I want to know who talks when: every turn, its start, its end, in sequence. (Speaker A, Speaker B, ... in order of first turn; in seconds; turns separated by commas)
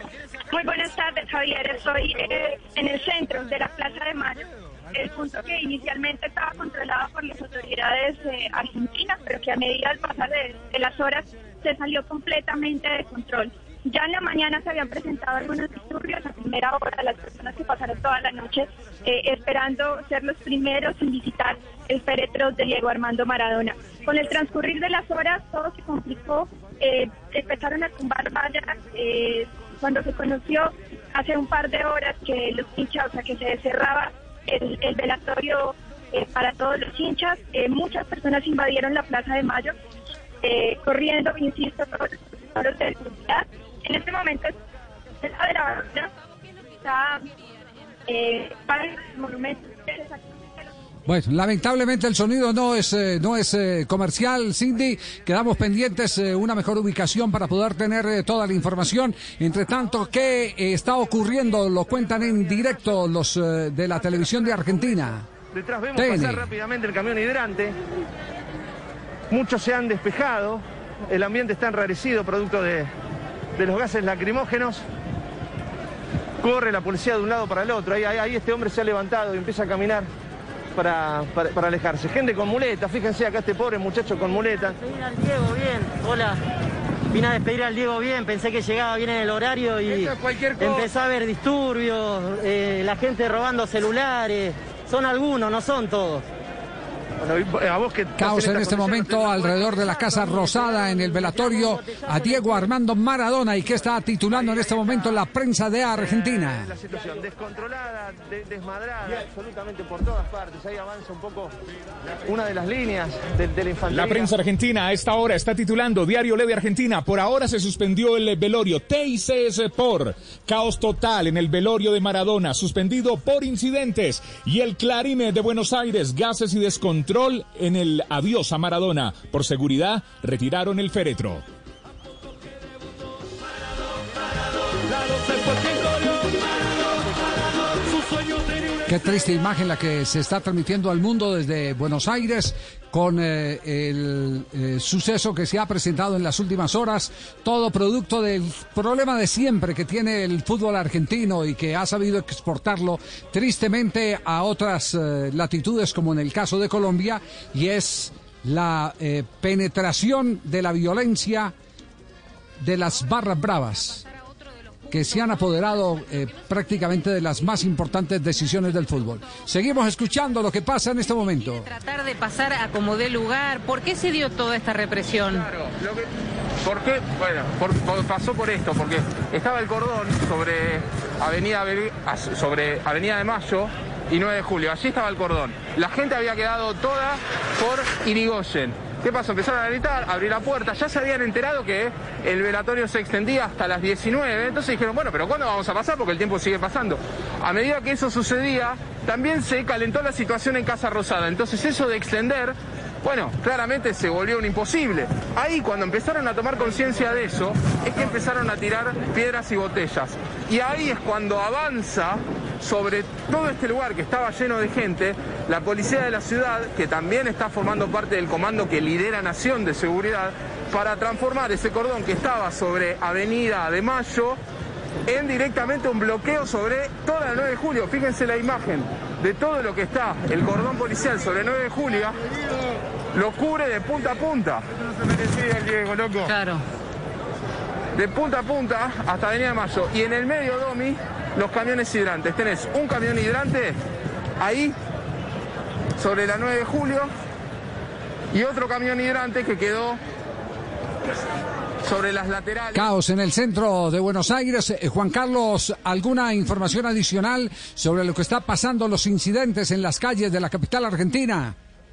Speaker A: 0.5-39.7, Speaker A: 40.4-44.5, Speaker A: 45.2-46.1, Speaker A: 46.8-47.2, Speaker A: 48.1-50.7, Speaker B: 51.0-65.3, Speaker C: 65.5-67.8, Speaker B: 65.9-66.5, Speaker C: 69.3-72.9, Speaker C: 73.6-74.8, Speaker C: 76.4-80.1, Speaker C: 80.7-84.8, Speaker D: 84.8-86.4, Speaker D: 87.1-96.2, Speaker C: 90.0-90.9, Speaker C: 97.2-99.9, Speaker B: 98.2-106.7, Speaker D: 100.5-102.4, Speaker C: 104.3-105.2, Speaker C: 105.9-111.5, Speaker C: 112.1-114.3, Speaker E: 113.9-131.4, Speaker B: 138.8-161.5, Speaker B: 162.6-164.0, Speaker B: 164.9-171.7, Speaker F: 171.8-175.4, Speaker G: 175.2-176.1, Speaker G: 176.6-224.4, Speaker G: 225.1-232.2, Speaker G: 233.1-236.3, Speaker F: 236.3-236.6, Speaker G: 237.9-243.8, Speaker G: 244.4-244.7, Speaker G: 246.0-247.1, Speaker G: 248.3-250.0, Speaker G: 251.8-252.9, Speaker B: 252.7-261.6